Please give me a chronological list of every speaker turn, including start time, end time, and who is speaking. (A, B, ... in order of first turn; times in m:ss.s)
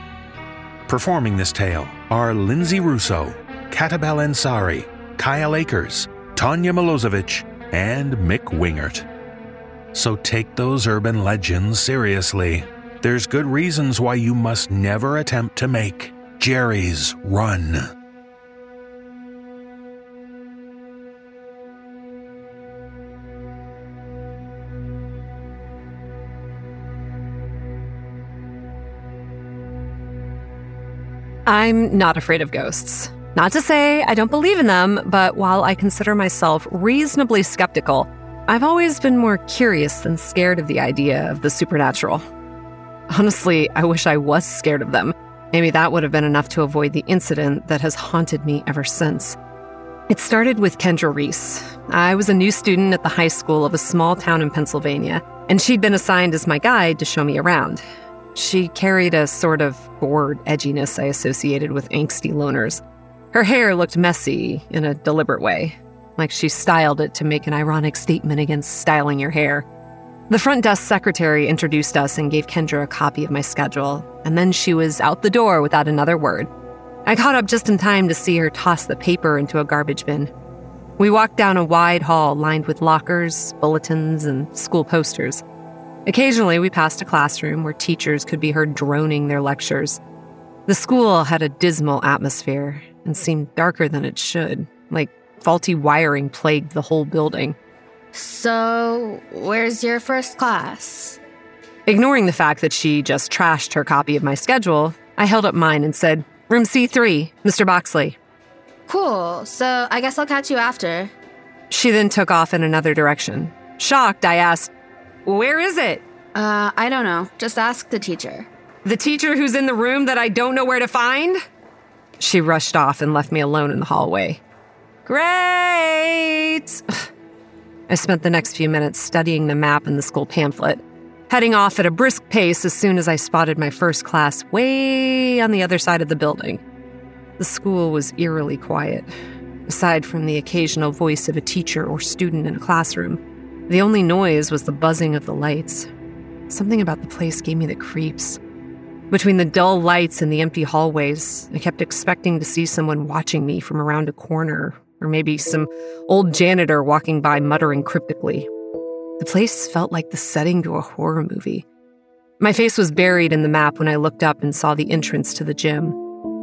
0:00.9-0:09.1 A
0:09.9-0:17.9 A
0:31.4-0:42.2 B
0:43.1-0:49.4 B
0:50.1-0:57.8 B
0:58.4-1:02.8 B
1:03.3-1:09.6 B
1:10.3-1:16.5 B
1:17.1-1:20.3 B
1:21.0-1:25.4 B
1:26.1-1:30.0 B
1:30.7-1:37.6 B
1:38.1-1:41.2 C
1:41.9-1:48.2 B
1:48.9-1:51.1 C
1:51.7-1:54.7 B
1:55.3-1:56.0 B
1:56.4-1:58.5 C
1:58.8-2:01.4 B
2:02.2-2:04.4 B
2:05.1-2:07.1 B
2:07.9-2:16.6 B
2:17.4-2:19.1 B
2:19.7-2:25.9 B
2:26.5-2:28.4 B
2:29.1-2:38.5 B
2:39.2-2:41.6 B
2:42.4-2:46.0 B